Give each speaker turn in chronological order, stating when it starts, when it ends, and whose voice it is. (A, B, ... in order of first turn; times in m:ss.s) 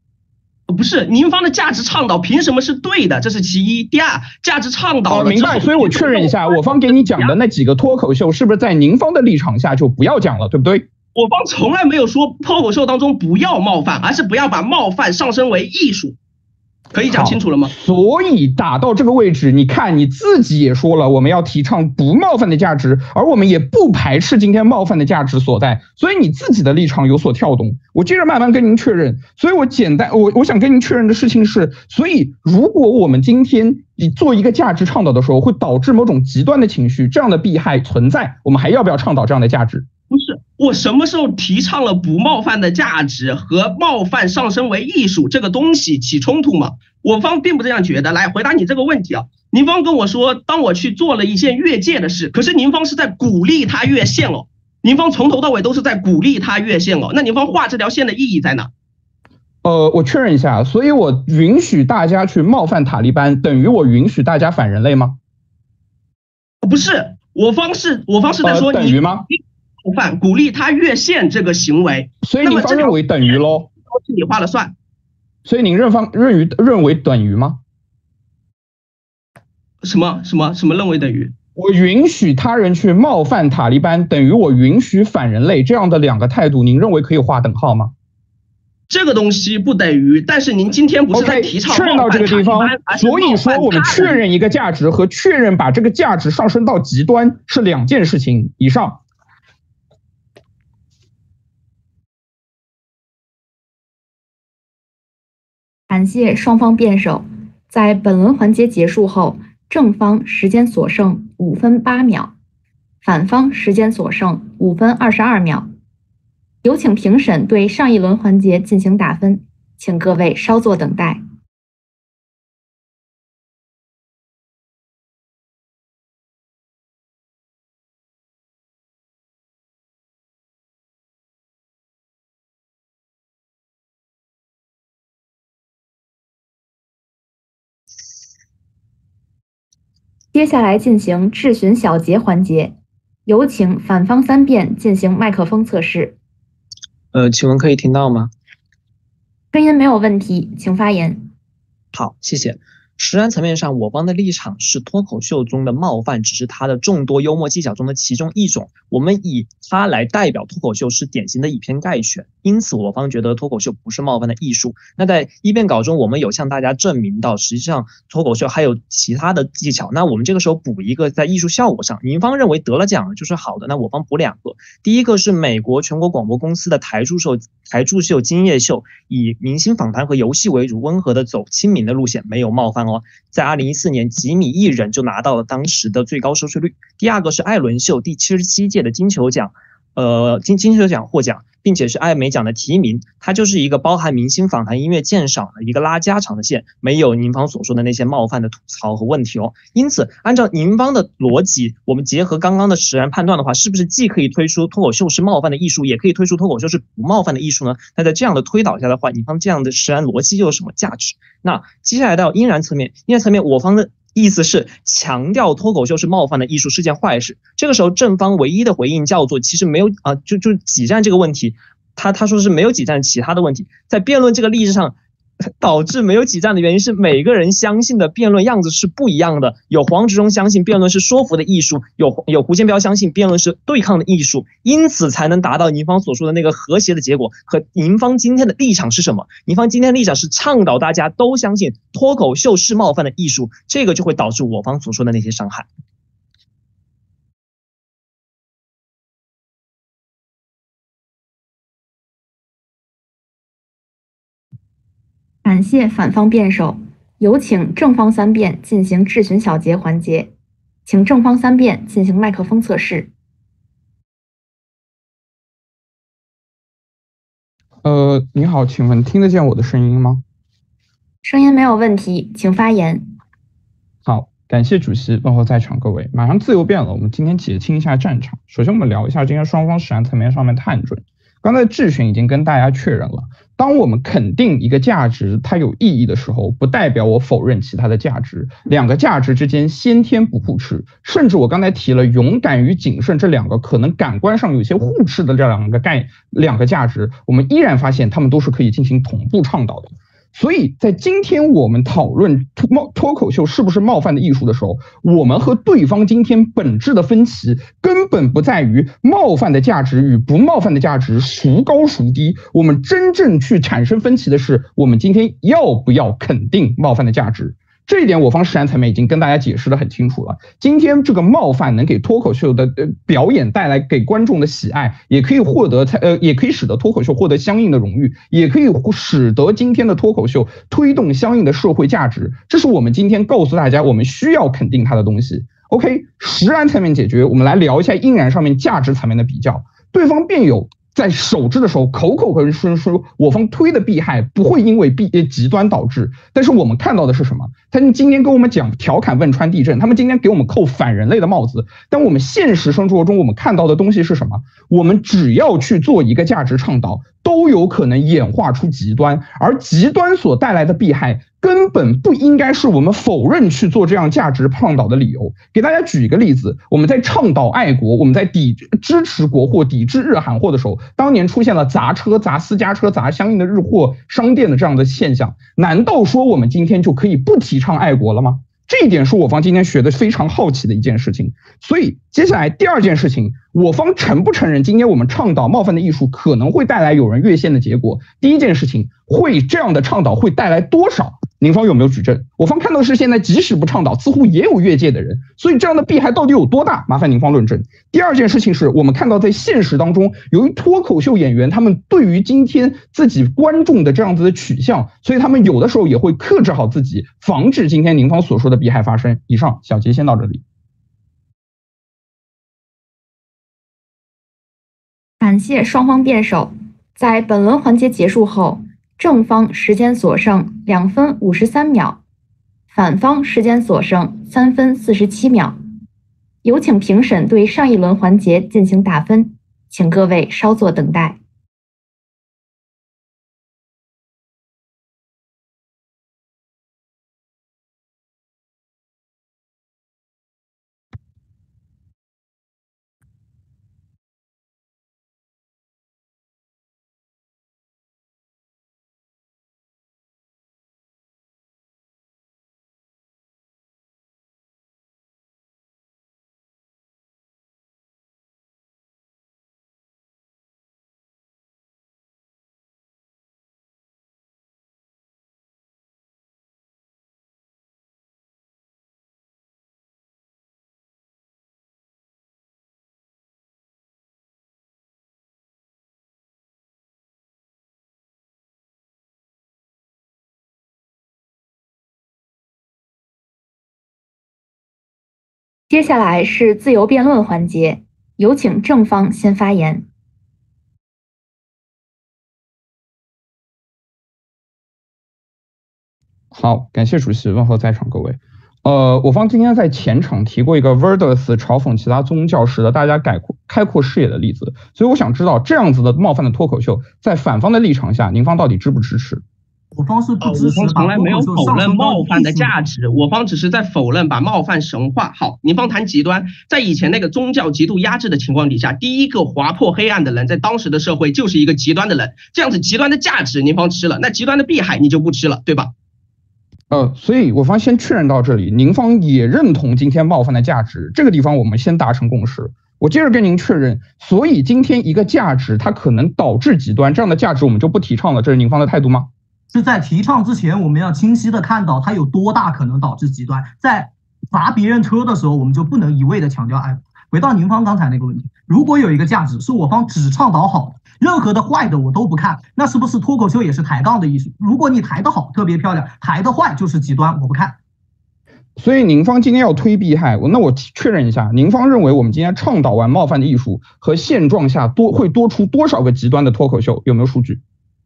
0:00.7-0:07.4 A
0:05.1-0:10.9 B
0:11.1-0:16.2 A
0:16.9-0:17.7 A
0:17.0-0:39.9 B
0:40.1-0:58.7 A
0:59.6-1:05.2 B
1:06.6-1:14.7 A
1:08.4-1:09.3 B
1:12.2-1:13.7 B
1:15.4-1:17.6 B
1:19.8-1:21.4 A
1:21.6-1:27.9 B
1:28.9-1:34.2 A
1:31.1-1:39.0 B
1:45.9-1:52.4 C
1:53.0-1:55.7 C
1:56.6-2:01.2 C
2:20.3-2:26.2 C
2:27.1-2:28.3 D
2:29.5-2:31.3 C
2:31.9-3:45.0 D
3:45.6-4:05.7 D
4:15.4-4:20.3 C
4:20.9-4:23.1 C
4:27.8-4:30.2 B
4:31.2-4:33.1 C
4:34.0-6:50.4 B
6:55.2-7:02.0 C
7:02.7-7:05.6 C
7:06.4-7:11.2 C
8:05.7-8:09.9 C
8:16.3-8:29.2 B
8:29.7-8:32.6 E
8:30.2-8:45.7 A
8:46.7-8:59.1 B
8:59.5-9:17.6 E
9:18.6-9:27.4 B